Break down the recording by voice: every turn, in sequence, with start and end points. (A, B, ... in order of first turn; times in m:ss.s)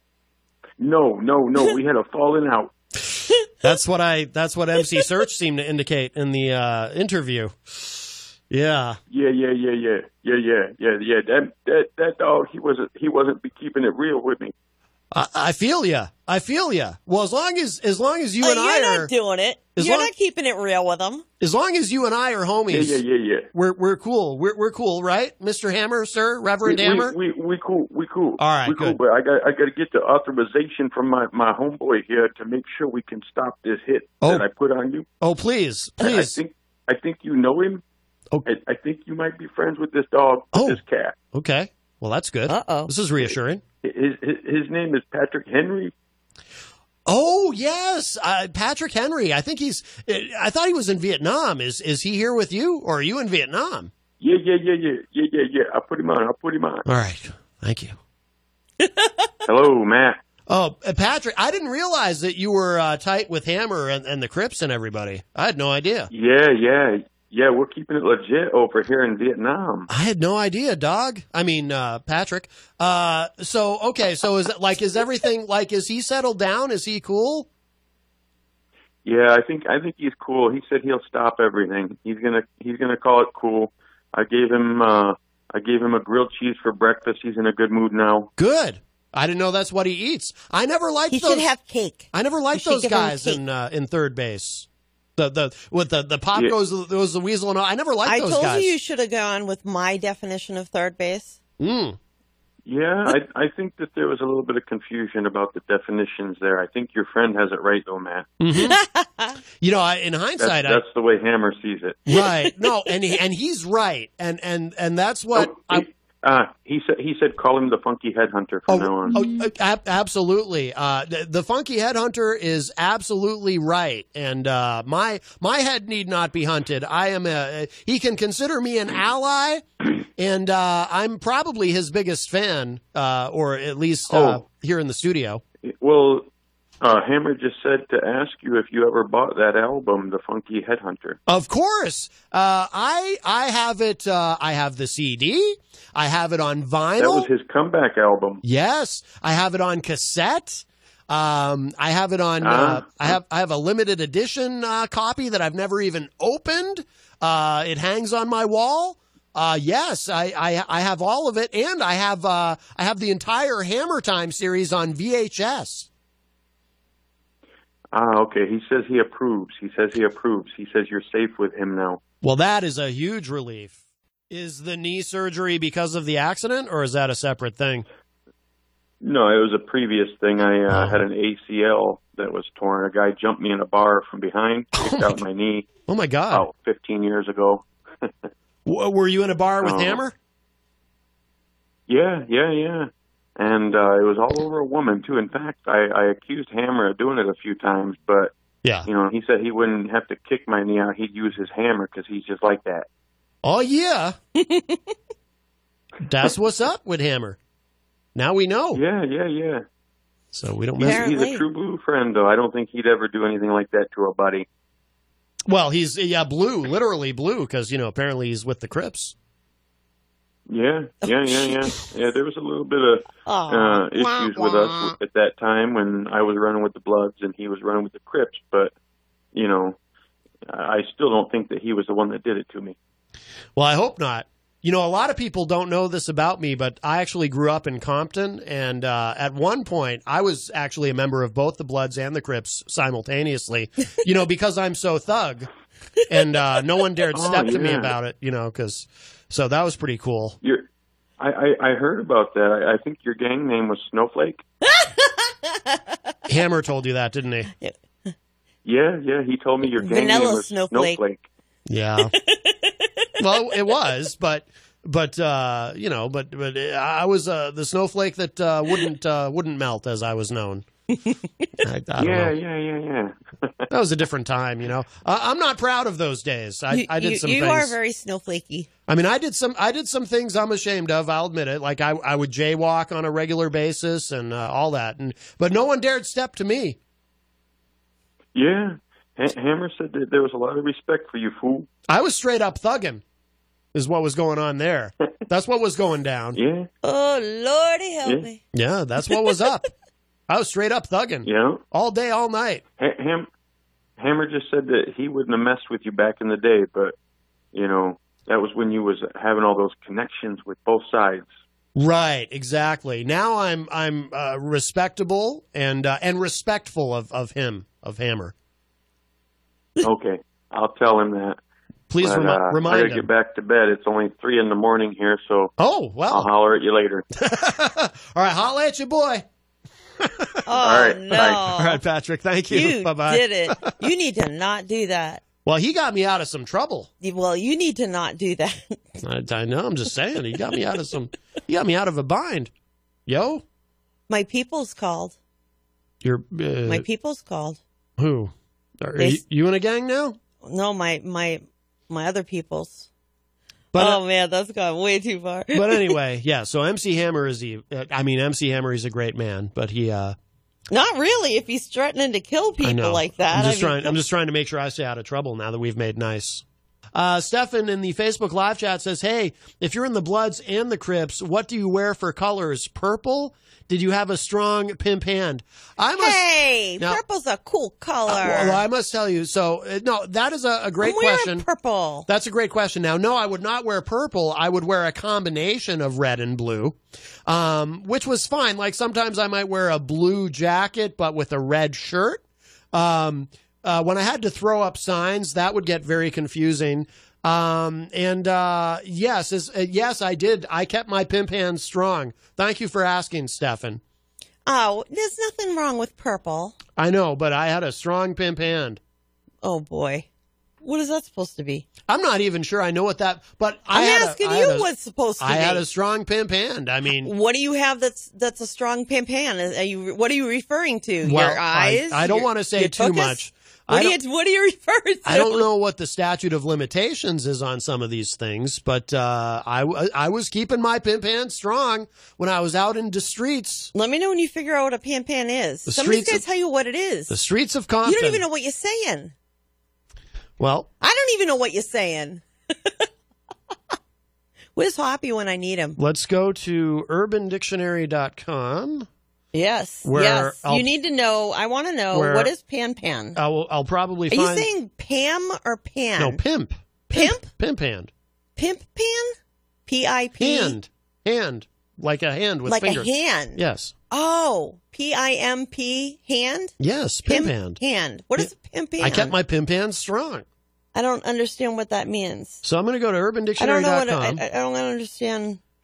0:00.8-0:02.7 A
0:03.6-0:09.0 B
0:09.1-0:14.5 A
0:15.1-0:19.1 B
0:18.4-0:21.2 C
0:19.8-0:20.1 B
0:21.4-0:23.0 B
0:22.7-0:23.5 A
0:23.5-0:27.1 B
0:26.6-0:35.0 A
0:28.4-0:29.0 B
0:35.2-0:36.4 B
0:36.0-0:37.8 A
0:38.4-0:41.1 A
0:40.5-0:40.8 B
0:41.3-0:43.6 B
0:42.5-0:42.9 C
0:43.8-0:45.9 A
0:47.1-0:53.9 B
0:54.2-0:56.8 A
0:56.8-0:58.0 B
0:59.4-1:00.2 A
1:00.5-1:06.1 B
1:06.1-1:09.9 A
1:09.9-1:17.5 B
1:19.0-1:28.3 A
1:28.4-1:31.4 B
1:31.1-1:33.4 C
1:32.1-1:38.7 B
1:38.0-1:41.4 C
1:41.6-1:42.0 B
1:42.6-1:48.3 A
1:48.4-1:48.8 B
1:48.6-1:49.4 C
1:49.6-1:50.8 B
1:50.4-1:52.0 A
1:52.1-1:55.8 B
1:52.1-1:52.5 C
1:55.3-1:59.2 A
1:58.7-2:09.6 B
2:10.2-2:15.4 B
2:14.1-2:14.4 A
2:15.6-2:16.3 A
2:16.8-2:21.2 A
2:21.3-2:27.3 B
2:27.0-2:28.4 A
2:28.4-2:45.9 B
2:32.4-2:33.2 A
2:47.9-2:52.0 A
2:52.2-2:53.8 B
2:54.3-2:57.8 B
2:59.0-3:05.6 A
3:00.7-3:01.0 B
3:04.8-3:05.2 B
3:05.9-3:06.4 B
3:06.3-3:08.0 A
3:08.6-3:10.1 B
3:09.6-3:10.0 A
3:11.9-3:18.3 A
3:18.8-3:22.8 A
3:23.4-3:24.1 B
3:24.4-3:24.8 C
3:26.0-3:27.4 B
3:28.1-3:28.8 B
3:28.7-3:29.6 A
3:30.3-3:31.0 B
3:30.8-3:31.4 C
3:30.8-3:34.4 A
3:35.5-3:39.1 B
3:40.5-3:48.7 A
3:41.0-3:41.7 C
3:43.2-3:44.9 C
3:49.3-3:49.8 A
3:50.5-3:52.8 A
3:53.6-4:05.5 B
4:06.1-4:10.4 B
4:07.1-4:07.9 A
4:11.2-4:14.4 A
4:14.7-4:15.8 C
4:16.3-4:17.5 B
4:18.6-4:21.2 A
4:19.7-4:21.0 C
4:21.7-4:22.1 B
4:22.3-4:22.6 C
4:23.2-4:30.6 B
4:31.6-4:32.3 B
4:32.0-4:33.5 A
4:33.7-4:37.8 B
4:36.7-4:38.7 C
4:38.9-4:46.8 B
4:48.3-4:51.7 A
4:51.9-4:53.0 B
4:53.7-4:56.4 B
4:56.3-4:56.7 A
4:56.8-4:58.4 C
4:58.5-4:59.6 B
5:00.3-5:02.6 B
5:01.2-5:01.6 A
5:02.8-5:03.3 A
5:04.0-5:06.9 A
5:07.5-5:11.3 A
5:11.8-5:18.3 B
5:19.8-5:21.4 A
5:21.9-5:23.0 B
5:22.0-5:25.5 A
5:25.6-5:26.3 B
5:26.1-5:27.0 A
5:27.2-5:29.2 B
5:30.4-5:31.8 C
5:30.6-5:31.4 A
5:31.3-5:33.7 B
5:32.5-5:35.2 C
5:35.4-5:36.9 B
5:37.0-5:38.8 C
5:39.0-5:42.5 B
5:43.1-5:43.4 B
5:44.1-5:45.2 C
5:46.0-5:46.8 B
5:46.6-5:47.6 C
5:48.0-5:50.2 B
5:50.4-5:52.9 C
5:53.7-5:54.0 B
5:53.8-5:55.9 C
5:55.5-6:00.2 B
6:00.7-6:04.0 C
6:02.6-6:16.2 B
6:16.0-6:18.6 C
6:18.1-6:21.4 B
6:20.8-6:22.1 C
6:22.1-6:32.2 B
6:32.7-6:43.8 B
6:44.4-6:46.6 C
6:46.8-6:48.8 B
6:49.4-6:50.0 C
6:50.6-6:51.6 C
6:51.9-6:54.7 B
6:53.7-6:55.6 C
6:55.2-6:57.1 B
6:57.0-7:05.5 C
7:01.0-7:04.0 B
7:05.0-7:13.7 B
7:13.7-7:17.2 C
7:15.6-7:16.2 B
7:17.1-7:18.2 B
7:17.8-7:19.1 C
7:20.4-7:20.7 B
7:20.8-7:22.7 C
7:24.6-7:25.8 C
7:25.8-7:28.9 B
7:29.3-7:33.2 C
7:29.8-7:30.7 B
7:31.9-7:32.3 B
7:33.1-7:34.5 B
7:34.1-7:36.2 C
7:36.0-7:37.9 B
7:36.9-7:37.3 C
7:38.4-7:39.2 C
7:39.7-7:40.6 C
7:40.2-7:43.7 B
7:42.5-7:46.5 C
7:46.6-7:47.6 B
7:47.0-7:49.1 C
7:48.2-7:50.2 B
7:50.7-7:52.4 C
7:52.4-7:54.2 B
7:53.4-7:55.4 C